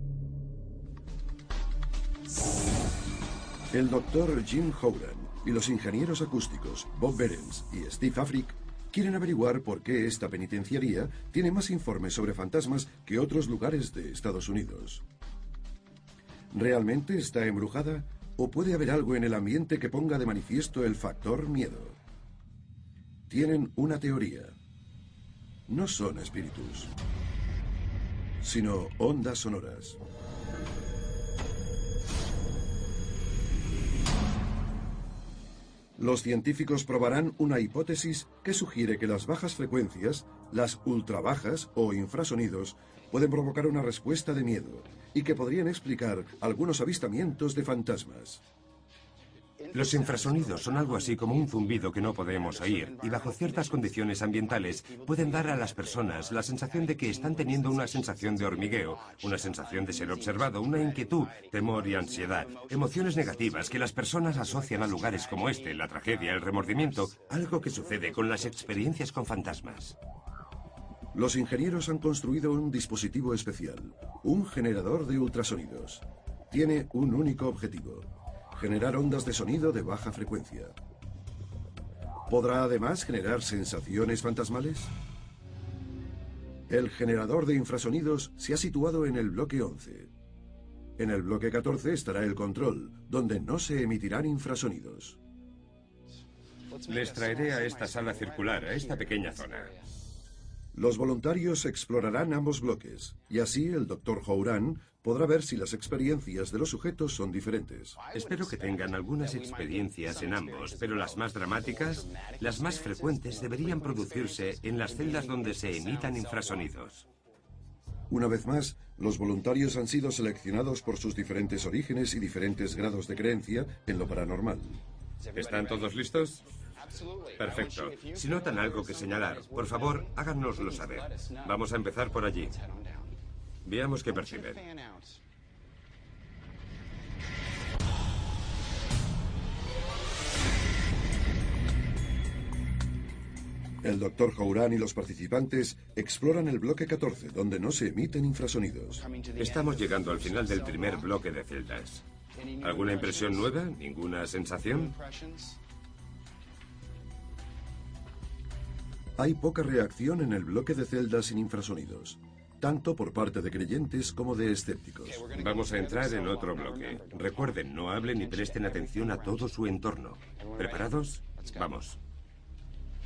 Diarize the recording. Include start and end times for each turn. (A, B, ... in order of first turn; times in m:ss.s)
0:03.7-0:15.0 A
0:16.5-0:22.0 A
0:23.3-0:24.6 A
0:25.7-0:26.9 A
0:28.4-0:30.0 A
0:36.0-0:48.4 A
0:49.7-1:10.0 B
1:11.1-1:20.8 A
1:22.3-1:24.9 A
1:26.7-1:30.1 A
1:31.0-1:35.2 A
1:36.9-1:39.7 B
1:40.7-1:48.0 A
1:48.1-1:57.1 B
1:58.1-2:04.8 A
2:05.4-2:06.4 B
2:07.4-2:12.6 B
2:13.6-2:14.6 B
2:23.8-2:29.0 A
2:29.4-2:32.0 B
2:32.6-2:35.0 B
2:39.2-2:45.3 A
2:45.3-2:52.0 B